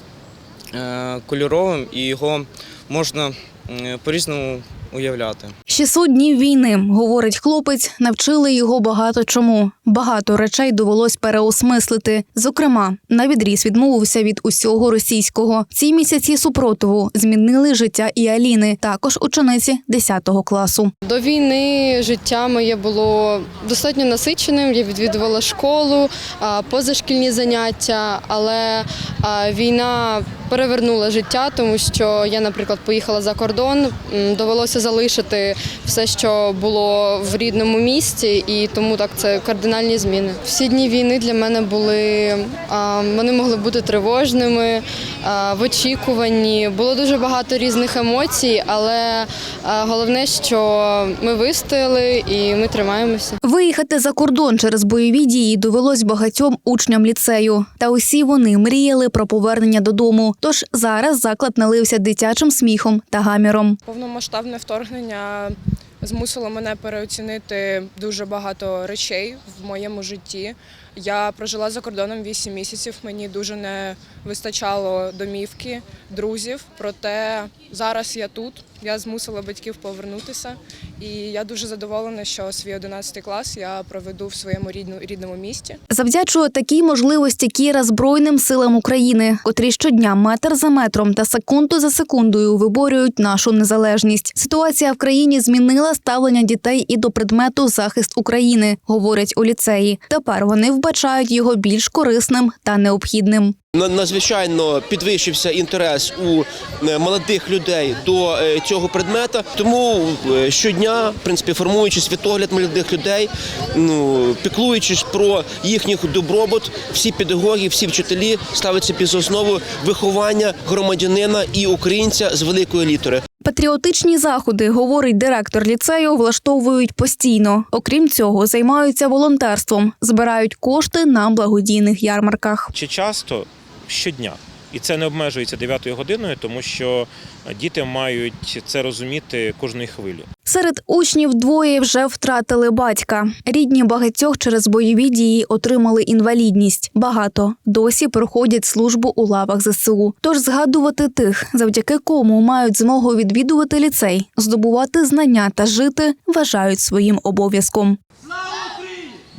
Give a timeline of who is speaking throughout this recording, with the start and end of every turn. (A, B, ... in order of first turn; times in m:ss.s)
0:00.7-0:05.5 A
0:05.7-0:20.9 B
0:21.0-0:53.4 C
0:53.4-1:03.8 B
1:03.8-1:25.8 D
1:25.9-1:43.6 B
1:43.7-2:03.2 E
2:03.4-2:12.7 B
2:12.7-2:20.3 F
2:20.4-2:38.0 B